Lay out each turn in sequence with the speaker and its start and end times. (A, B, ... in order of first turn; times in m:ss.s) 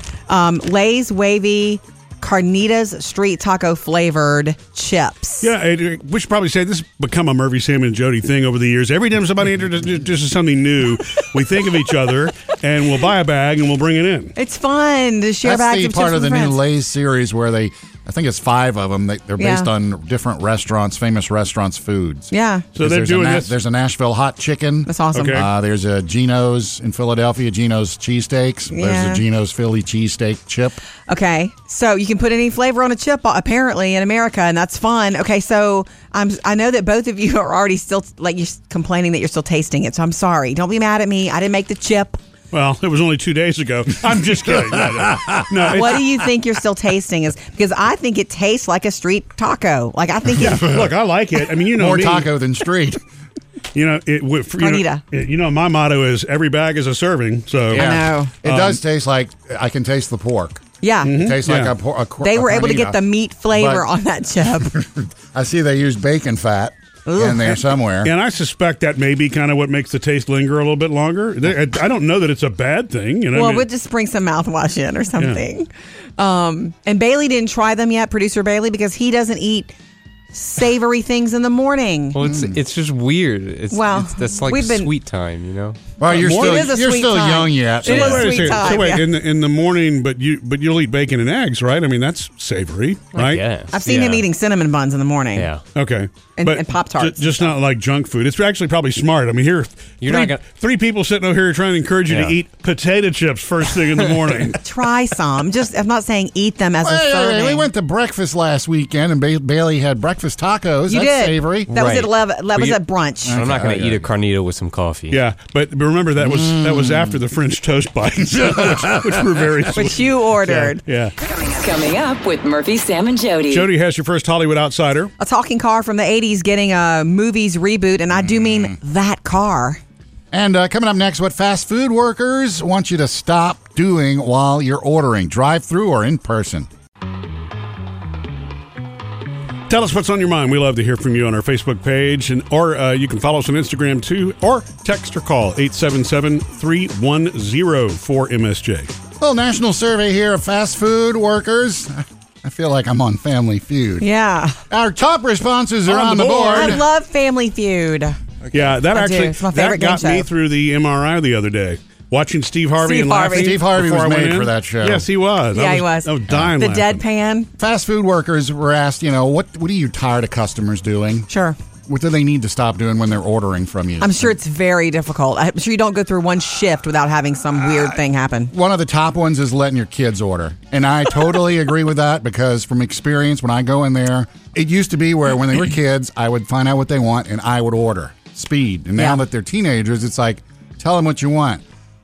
0:00.3-0:05.5 A
0:05.4-0:14.3 B
0:14.4-0:16.6 A
0:15.4-0:30.8 C
0:19.4-0:19.7 A
0:22.3-0:22.7 A
0:22.8-0:23.5 B
0:24.9-0:25.4 A
0:25.1-0:25.5 B
0:28.7-0:29.2 A
0:31.1-0:42.2 A
0:42.5-0:46.2 B
0:45.7-0:50.7 A
0:50.4-0:52.3 B
0:51.7-0:53.0 C
0:53.7-0:57.9 B
0:54.6-0:55.0 A
0:57.7-1:03.0 C
0:57.7-0:58.3 A
0:58.4-0:58.8 B
1:00.8-1:01.2 A
1:01.0-1:01.8 B
1:02.2-1:04.8 A
1:03.5-1:03.8 C
1:04.7-1:08.1 C
1:07.1-1:07.6 A
1:08.0-1:13.7 B
1:13.3-1:19.7 A
1:15.2-1:15.4 B
1:20.3-1:22.2 A
1:22.1-1:25.8 D
1:22.2-1:22.6 C
1:23.7-1:24.9 A
1:26.0-1:28.7 C
1:26.1-1:29.0 A
1:26.1-1:26.7 B
1:27.8-1:33.4 B
1:33.1-1:34.2 D
1:33.7-1:35.5 A
1:35.4-1:35.6 D
1:35.7-1:44.6 B
1:36.4-1:37.5 A
1:40.0-1:40.4 D
1:42.1-1:42.4 D
1:44.6-1:47.7 A
1:46.8-1:51.7 C
1:50.9-1:53.4 A
1:51.7-1:55.2 D
1:53.3-1:54.1 C
1:55.1-2:01.1 B
1:56.2-1:57.2 C
1:58.3-1:59.3 C
1:59.7-2:00.8 A
2:01.3-2:03.7 E
2:03.5-2:05.1 B
2:05.2-2:09.8 A
2:08.1-2:08.8 C
2:10.3-2:16.7 C
2:19.7-2:28.9 B
2:29.2-2:34.0 C
2:34.0-2:34.6 A
2:34.7-2:36.8 C
2:35.9-2:36.8 B
2:36.4-2:38.2 A
2:38.5-2:47.0 B
2:38.9-2:40.3 A
2:42.8-2:43.6 A
2:43.3-2:45.0 C
2:45.5-2:47.5 A
2:47.6-2:51.3 C
2:51.3-2:51.6 A
2:51.9-2:54.3 C
2:54.0-2:58.5 A
2:58.5-3:11.6 C
3:09.0-3:09.2 A